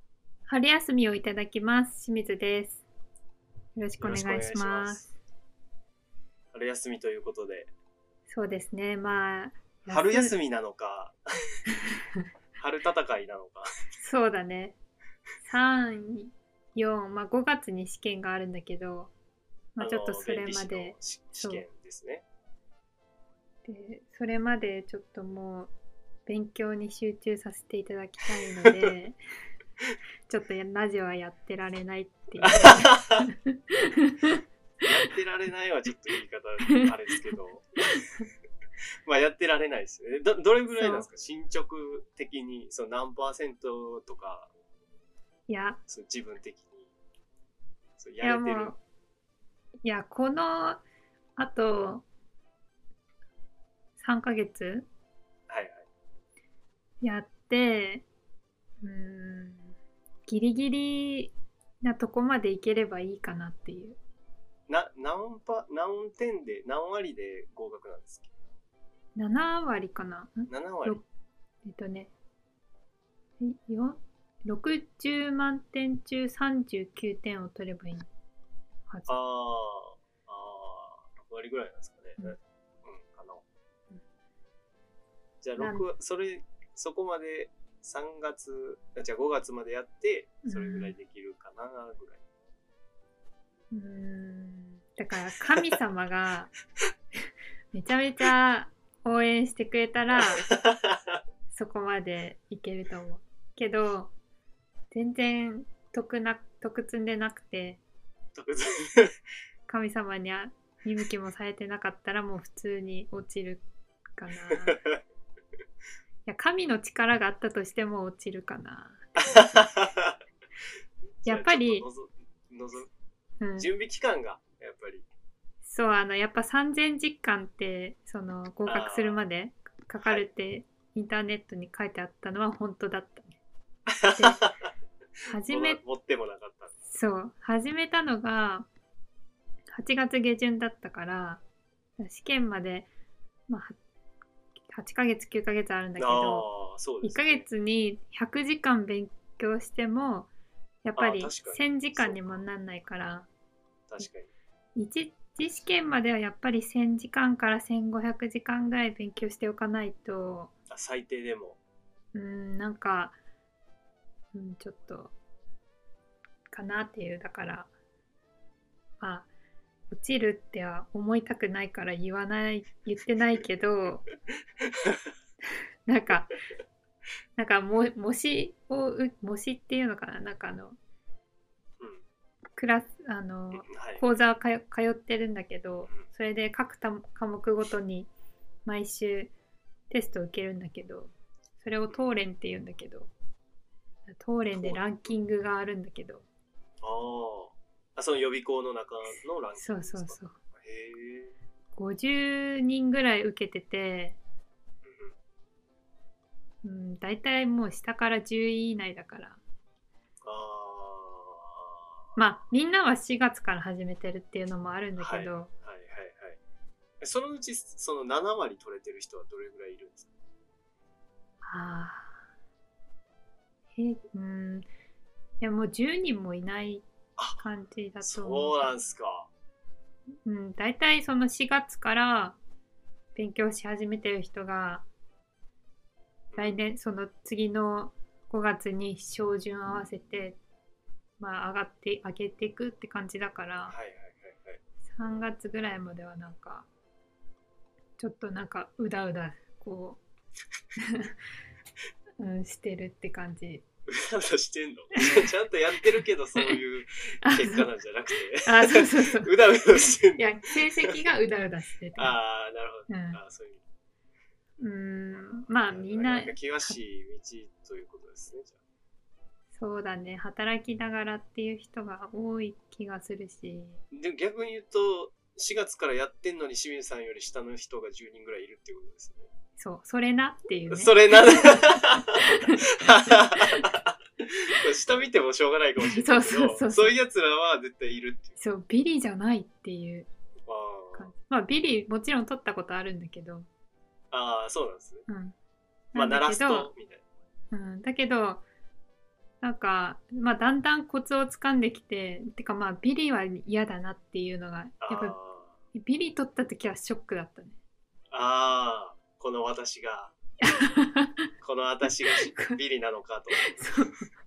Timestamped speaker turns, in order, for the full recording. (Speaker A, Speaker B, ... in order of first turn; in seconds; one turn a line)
Speaker A: 0.5-2.8
Speaker A: 3.8-5.0
Speaker B: 4.0-5.1
Speaker B: 6.5-7.7
Speaker A: 8.3-10.3
Speaker B: 9.9-11.2
Speaker B: 12.6-13.7
Speaker A: 14.0-14.8
Speaker A: 15.4-19.1
Speaker A: 19.8-21.6
Speaker B: 19.8-22.2
Speaker A: 23.6-25.7
Speaker A: 26.3-29.2
Speaker B: 28.6-28.9
Speaker A: 30.3-34.4
Speaker B: 32.4-33.3
Speaker B: 34.8-38.0
Speaker B: 39.1-44.5
Speaker A: 40.7-41.1
Speaker A: 45.5-45.8
Speaker B: 45.9-46.9
Speaker B: 48.0-48.7
Speaker A: 48.2-48.8
Speaker A: 49.8-50.8
Speaker A: 51.4-52.1
Speaker A: 54.0-54.9
Speaker B: 55.5-55.9
Speaker A: 57.0-58.0
Speaker A: 58.8-59.7
Speaker A: 60.3-64.0
Speaker B: 64.7-68.3
Speaker A: 69.2-71.0
Speaker B: 70.5-71.0
Speaker A: 71.7-72.1
Speaker A: 73.4-78.1
Speaker B: 79.1-83.4
Speaker B: 85.4-92.2
Speaker A: 85.6-85.9
Speaker A: 90.5-90.9
Speaker A: 93.7-96.5
Speaker A: 97.7-100.5
Speaker B: 100.2-101.2
Speaker A: 101.5-104.1
Speaker A: 104.9-107.8
Speaker B: 108.3-109.2
Speaker A: 109.7-113.6
Speaker A: 114.2-114.8
Speaker B: 114.5-115.0
Speaker A: 116.3-119.1
Speaker B: 119.2-120.2
Speaker A: 121.2-121.9
Speaker B: 121.3-122.9
Speaker A: 123.4-123.7
Speaker B: 123.6-125.1
Speaker A: 125.6-133.4
Speaker B: 128.7-129.2
Speaker B: 133.9-134.7
Speaker A: 134.1-134.4
Speaker A: 135.3-135.8
Speaker B: 135.4-136.7
Speaker A: 136.9-138.7
Speaker A: 139.7-141.4
Speaker A: 142.0-142.9
Speaker A: 143.5-143.8
Speaker A: 144.7-146.5
Speaker B: 146.0-147.5
Speaker A: 147.0-150.3
Speaker A: 150.8-153.3
Speaker B: 151.0-152.4
Speaker B: 153.9-154.3
Speaker A: 154.8-160.5
Speaker B: 160.7-161.6
Speaker A: 162.1-163.2
Speaker A: 164.3-165.1
Speaker A: 166.5-167.7
Speaker A: 169.0-169.3
Speaker A: 169.9-174.0
Speaker B: 174.6-175.1
Speaker A: 175.9-176.3
Speaker A: 177.4-180.8
Speaker A: 182.6-188.1
Speaker B: 183.5-184.1
Speaker A: 188.7-189.3
Speaker A: 189.9-193.1
Speaker A: 194.1-196.2
Speaker B: 194.6-194.8
Speaker B: 196.8-201.3
Speaker A: 199.6-200.3
Speaker A: 201.8-204.2
Speaker B: 204.9-205.1
Speaker A: 206.6-209.4
Speaker B: 210.2-211.6
Speaker A: 212.2-215.5
Speaker B: 215.0-216.4
Speaker B: 217.0-220.1
Speaker A: 221.4-222.2
Speaker A: 223.8-224.7
Speaker A: 225.4-226.9
Speaker A: 227.4-228.7
Speaker B: 228.0-229.3
Speaker A: 230.2-232.4
Speaker A: 233.2-234.8
Speaker B: 236.3-236.6
Speaker A: 236.4-240.4
Speaker A: 241.2-243.8
Speaker B: 243.7-244.6
Speaker A: 244.9-246.7
Speaker A: 248.0-250.0
Speaker A: 250.8-251.2
Speaker A: 252.2-253.6
Speaker B: 253.9-261.1
Speaker A: 257.2-257.7
Speaker A: 258.4-262.2
Speaker B: 262.0-263.6
Speaker A: 262.9-263.2
Speaker A: 264.6-266.8
Speaker B: 265.1-268.6
Speaker A: 269.6-273.8
Speaker B: 273.9-279.3
Speaker A: 279.6-283.6
Speaker B: 280.7-288.4
Speaker A: 285.8-286.9
Speaker A: 288.4-290.1
Speaker B: 290.5-291.1
Speaker A: 291.0-293.5
Speaker B: 294.1-295.1
Speaker A: 295.1-295.4
Speaker A: 295.9-296.7
Speaker B: 295.9-297.0
Speaker A: 297.5-298.4
Speaker A: 299.4-305.2
Speaker B: 304.8-305.6
Speaker A: 305.7-307.6
Speaker B: 308.1-310.2
Speaker A: 310.4-311.2
Speaker B: 311.4-313.5
Speaker A: 312.0-312.6
Speaker A: 313.4-314.1